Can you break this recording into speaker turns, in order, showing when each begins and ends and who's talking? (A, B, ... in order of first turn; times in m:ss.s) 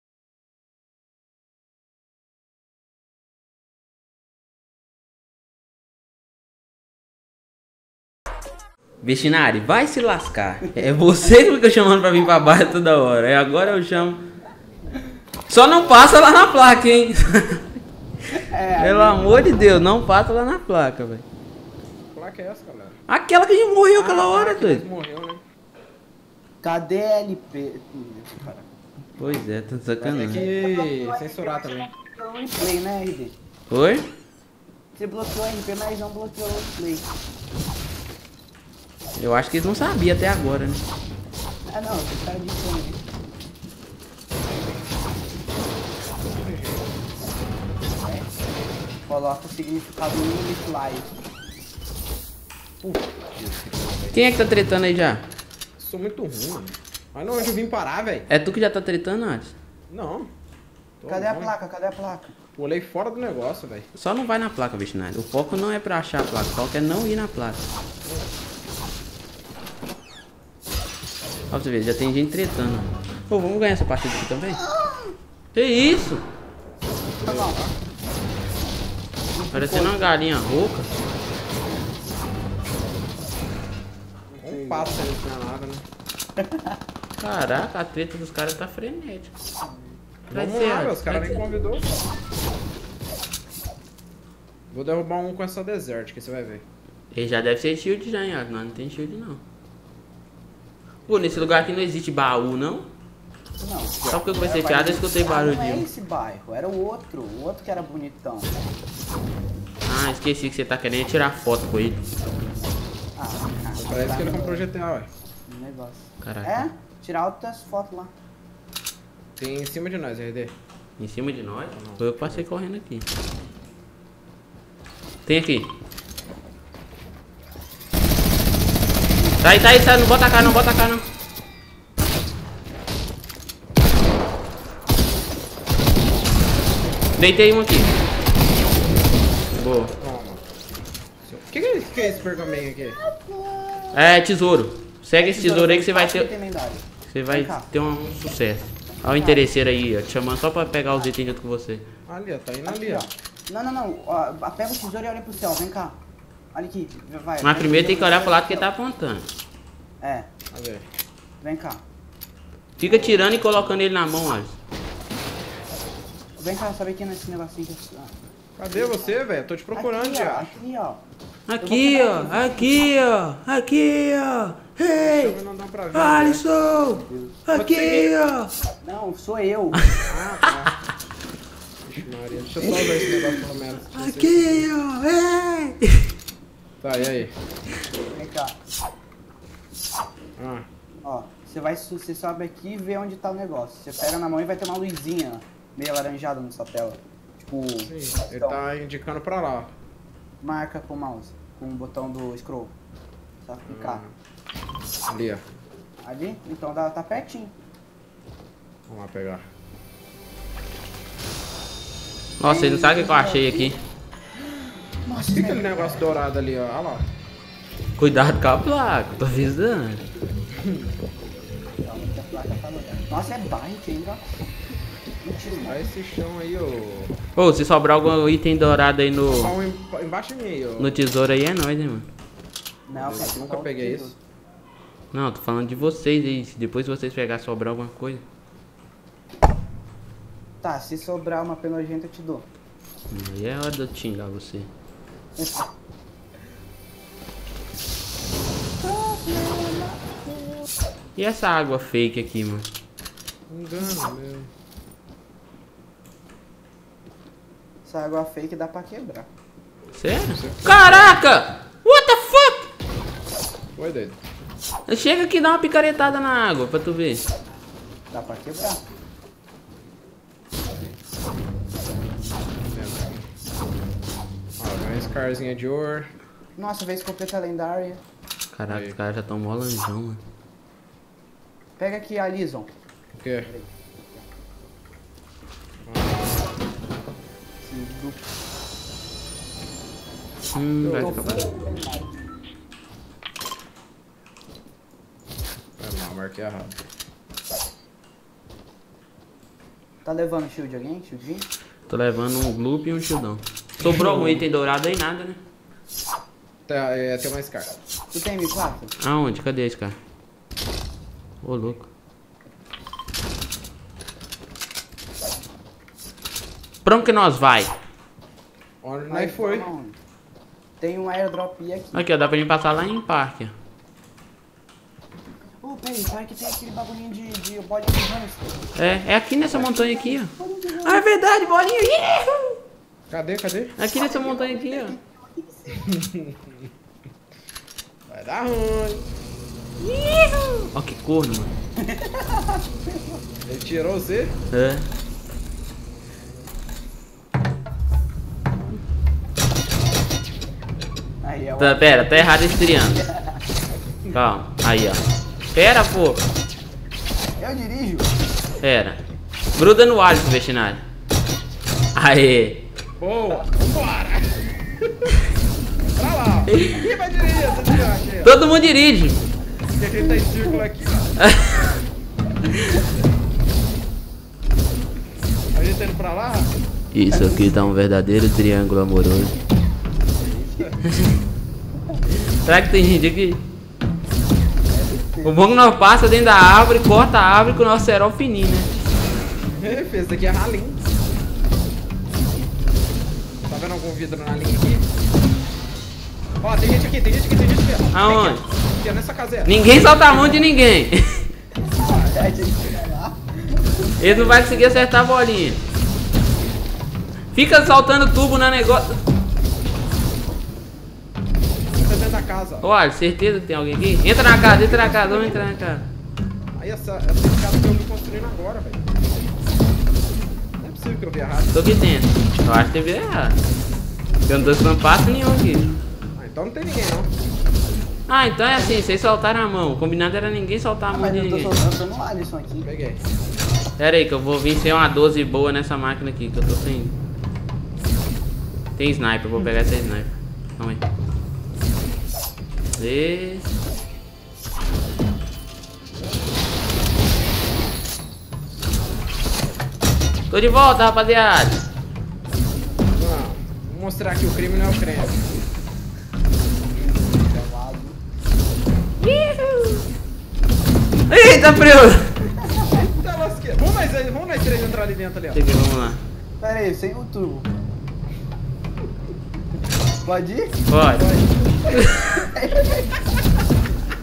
0:09.0-0:14.2 A
0:15.5-0:17.6 A
0:18.3-0:19.7 B
0:18.8-0:21.2 A
0:22.1-0:23.0 C
0:23.1-0:24.8 A
0:23.9-0:25.4 C
0:26.6-0:28.7 B
0:29.2-0:30.4 A
0:30.0-0:33.4 B
0:30.2-0:31.9 C
0:33.7-0:34.0 A
0:35.0-0:37.1 B
0:39.2-0:40.8 A
0:41.6-0:43.0 B
0:46.3-0:46.9 C
0:48.0-0:48.3 B
0:49.1-0:51.1 B
0:52.8-0:54.3 C
0:54.1-0:55.2 A
0:55.8-0:58.3 C
0:58.3-0:59.5 A
0:59.9-1:00.3 C
1:01.0-1:01.6 C
1:01.1-1:02.4 B
1:02.6-1:03.9 C
1:04.0-1:07.7 A
1:11.5-1:14.6 A
1:14.5-1:15.2 B
1:15.5-1:16.2 A
1:17.2-1:17.8 C
1:17.2-1:17.6 B
1:19.3-1:20.1 B
1:19.5-1:20.9 A
1:24.3-1:25.1 B
1:24.4-1:25.8 C
1:26.4-1:26.8 B
1:27.2-1:29.3 A
1:29.6-1:30.0 B
1:30.3-1:31.4 A
1:30.3-1:31.9 C
1:34.7-1:36.6 C
1:37.1-1:39.4 A
1:41.1-1:42.9 A
1:43.6-1:48.6 B
1:44.1-1:45.9 A
1:49.9-1:52.1 A
1:53.2-1:54.7 B
1:53.8-1:55.1 C
1:55.5-1:58.1 B
1:56.2-1:56.7 A
1:59.4-2:00.5 C
2:01.0-2:03.1 A
2:01.8-2:02.4 C
2:05.3-2:05.7 A
2:09.4-2:11.0 A
2:17.2-2:17.9 A
2:19.6-2:19.9 A
2:20.0-2:20.4 C
2:21.2-2:23.0 C
2:21.9-2:24.1 B
2:23.9-2:26.3 A
2:25.2-2:27.7 B
2:27.1-2:31.8 A
2:29.0-2:29.5 B
2:32.1-2:33.1 C
2:32.7-2:36.0 B
2:36.5-2:38.7 B
2:37.4-2:39.3 A
2:40.0-2:40.3 B
2:40.5-2:40.8 C
2:41.4-2:41.8 B
2:42.8-2:43.8 B
2:42.8-2:44.6 A
2:46.4-2:49.2 B
2:48.6-2:50.6 C
2:49.7-2:51.0 B
2:51.5-2:55.4 A
2:51.6-2:53.0 B
2:55.0-2:56.4 C
2:55.9-2:58.5 A
2:56.6-2:57.5 B
2:57.5-2:58.2 C
2:58.8-2:59.9 B
3:00.1-3:00.8 C
3:01.9-3:04.7 C
3:02.7-3:02.9 A
3:03.8-3:06.0 A
3:06.8-3:07.4 C
3:08.0-3:08.6 B
3:10.4-3:10.7 C
3:11.0-3:18.6 B
3:17.9-3:19.7 C
3:20.4-3:22.8 B
3:23.4-3:24.0 B
3:23.6-3:24.2 C
3:25.1-3:25.4 C
3:26.0-3:27.6 B
3:28.9-3:29.4 C
3:32.4-3:33.8 A
3:32.4-3:33.8 B
3:35.0-3:36.0 B
3:35.3-3:37.1 C
3:38.0-3:40.0 A
3:40.6-3:40.9 C
3:41.8-3:44.3 B
3:45.2-3:45.9 B
3:45.6-3:47.2 C
3:47.4-3:49.6 A
3:49.3-3:51.1 C
3:50.8-3:52.1 A
3:52.9-3:54.2 B
3:52.9-3:54.1 C
3:55.1-3:58.2 A
4:00.6-4:02.5 B
4:03.1-4:04.7 A
4:05.4-4:05.7 B
4:08.8-4:10.7 B
4:11.2-4:12.6 A
4:13.5-4:14.5 C
4:17.8-4:19.3 B
4:20.0-4:22.7 A
4:20.3-4:21.2 C
4:23.8-4:24.2 C
4:24.9-4:27.2 A
4:28.1-4:28.8 B
4:32.7-4:33.2 C
4:34.6-4:36.1 C
4:36.6-4:38.0 B
4:38.5-4:40.2 A
4:38.7-4:39.0 C
4:41.8-4:42.7 B
4:43.2-4:43.5 C
4:43.4-4:44.3 B
4:45.8-4:46.4 C
4:47.6-4:48.3 B
4:50.5-4:51.5 A
4:50.8-4:51.5 C
4:51.0-4:52.1 B
4:55.8-4:56.8 C
5:00.0-5:01.5 B
5:01.9-5:05.4 A
5:03.8-5:04.4 C
5:06.7-5:07.7 C
5:08.1-5:09.0 B
5:09.0-5:10.0 A
5:11.4-5:11.9 A
5:16.8-5:17.7 A
5:18.8-5:19.7 C
5:19.1-5:20.0 B
5:20.8-5:22.1 B
5:21.9-5:23.5 A
5:25.6-5:28.7 B
5:28.8-5:32.6 A
5:29.5-5:31.1 B
5:33.1-5:33.8 C
5:33.8-5:35.0 A
5:33.9-5:35.8 B
5:35.8-5:36.7 C
5:38.1-5:39.1 C
5:39.8-5:41.5 A
5:41.8-5:43.2 B
5:43.5-5:44.4 C
5:44.5-5:44.8 A
5:51.2-5:53.4 B
5:51.6-5:53.0 A
5:54.1-5:55.0 A
5:55.5-5:56.2 A
5:57.4-5:58.2 B
5:58.6-5:59.0 A
5:59.6-6:00.8 A
6:02.0-6:02.6 A
6:03.0-6:04.3 C
6:05.9-6:08.4 C
6:06.5-6:06.9 A
6:08.2-6:09.2 A
6:09.8-6:11.1 C
6:10.0-6:10.6 B
6:11.2-6:11.6 A
6:15.5-6:16.5 C
6:16.9-6:19.4 A
6:17.1-6:17.6 B
6:20.3-6:20.8 C
6:20.3-6:20.7 B
6:22.4-6:23.4 A
6:24.7-6:25.7 B
6:25.2-6:28.8 A
6:29.6-6:30.8 C
6:33.4-6:34.8 C
6:36.4-6:39.5 C
6:37.9-6:38.4 A
6:39.4-6:41.3 A
6:40.1-6:40.4 B
6:41.8-6:44.8 B
6:44.0-6:45.6 A
6:47.3-6:49.0 A
6:51.7-6:52.7 C
6:52.6-6:55.9 A
6:54.4-6:55.4 C
6:56.6-6:58.9 C
7:00.6-7:01.6 C
7:01.5-7:03.4 A
7:04.2-7:05.8 A
7:06.2-7:07.1 C
7:08.1-7:11.5 A
7:08.5-7:08.8 B
7:10.9-7:12.7 B
7:12.6-7:13.0 C
7:13.8-7:16.9 A
7:18.8-7:20.8 A
7:22.8-7:23.6 A
7:30.3-7:31.6 A
7:32.9-7:35.3 C
7:36.7-7:38.0 B
7:39.0-7:39.8 A
7:41.1-7:42.1 A
7:42.4-7:42.8 B
7:42.8-7:45.4 C
7:45.3-7:46.0 A
7:46.4-7:47.5 B
7:50.0-7:50.6 B
7:50.7-7:51.1 A
7:51.0-7:51.6 C
7:51.7-7:52.1 A
7:52.0-7:52.9 B